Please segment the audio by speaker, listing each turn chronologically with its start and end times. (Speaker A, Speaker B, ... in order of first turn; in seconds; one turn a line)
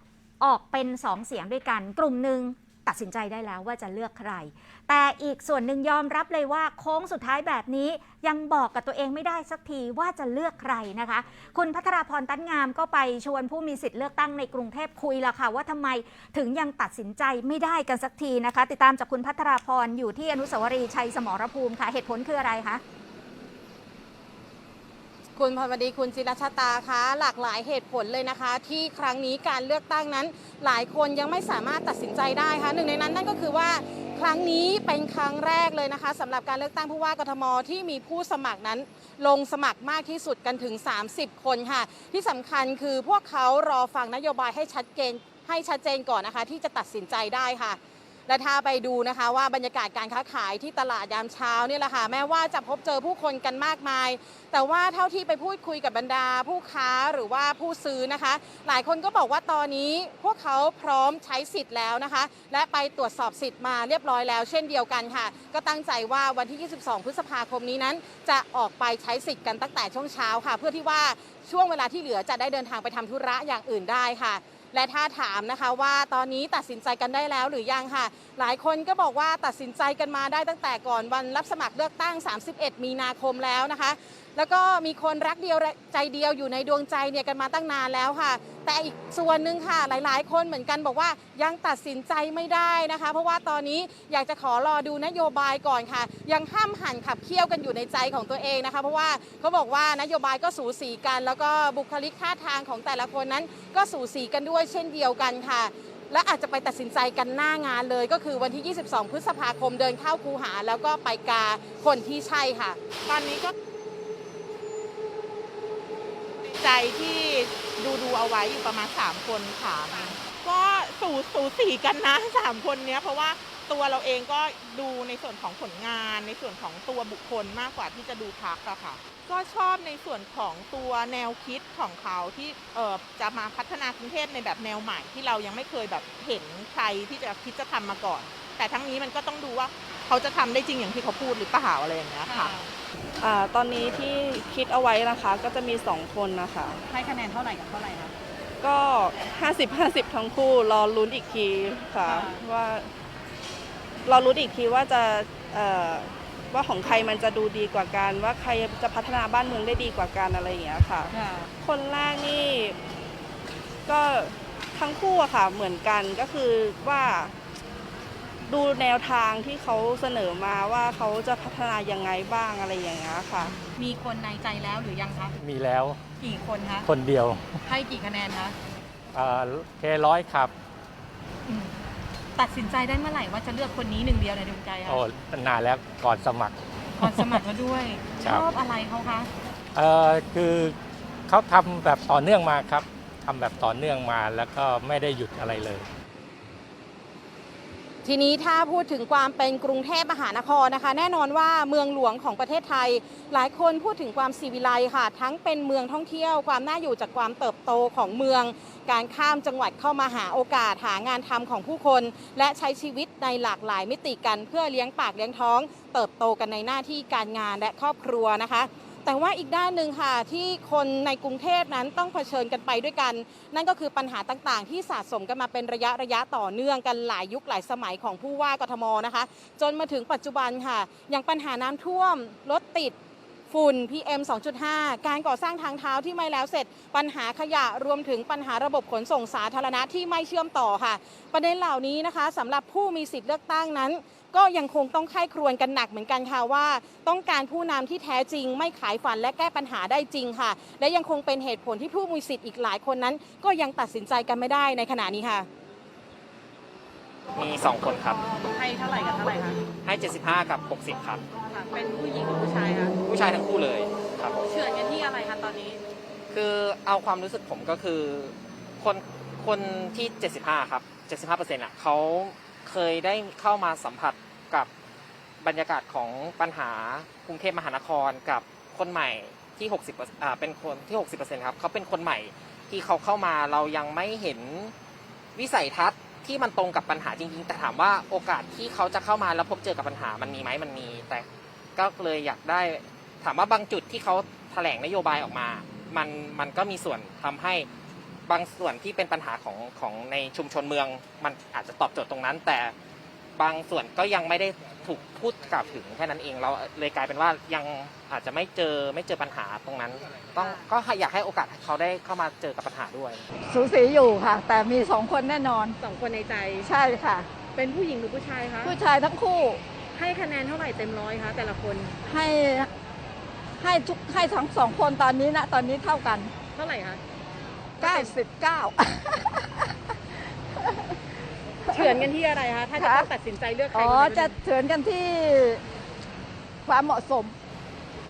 Speaker A: 0.4-22.8
Speaker B: 25.3-112.8
Speaker C: 113.0-113.5
Speaker C: 116.5-142.6
Speaker D: 142.3-142.6
Speaker E: 143.2-146.8
Speaker D: 146.9-148.1
Speaker E: 148.6-152.9
Speaker D: 152.1-152.4
Speaker E: 154.1-162.8
Speaker D: 161.2-161.4
Speaker E: 163.9-167.3
Speaker E: 168.5-173.5
Speaker D: 173.6-175.3
Speaker F: 175.4-176.0
Speaker D: 176.2-176.9
Speaker F: 176.8-177.6
Speaker D: 177.7-178.6
Speaker F: 179.1-180.5
Speaker D: 181.5-181.7
Speaker D: 182.3-185.0
Speaker F: 184.8-187.4
Speaker D: 187.0-189.3
Speaker F: 188.2-188.5
Speaker F: 189.7-190.8
Speaker F: 191.3-195.9
Speaker B: 198.0-232.9
Speaker B: 233.5-255.5
Speaker G: 257.4-258.2
Speaker D: 258.5-259.6
Speaker G: 259.8-261.2
Speaker D: 261.5-262.9
Speaker G: 263.1-264.4
Speaker D: 264.4-265.8
Speaker G: 266.3-274.7
Speaker G: 275.4-284.7
Speaker G: 285.4-291.2
Speaker G: 291.8-297.7
Speaker G: 298.3-302.7
Speaker G: 303.4-313.2
Speaker H: 313.5-315.7
Speaker B: 315.8-316.7
Speaker H: 316.7-317.3
Speaker H: 318.7-319.6
Speaker B: 321.5-321.8
Speaker H: 322.1-322.7
Speaker H: 323.6-326.3
Speaker B: 326.5-327.0
Speaker H: 327.8-329.7
Speaker B: 331.7-334.4
Speaker H: 331.7-332.0
Speaker H: 332.8-333.1
Speaker H: 333.7-335.6
Speaker H: 336.6-337.3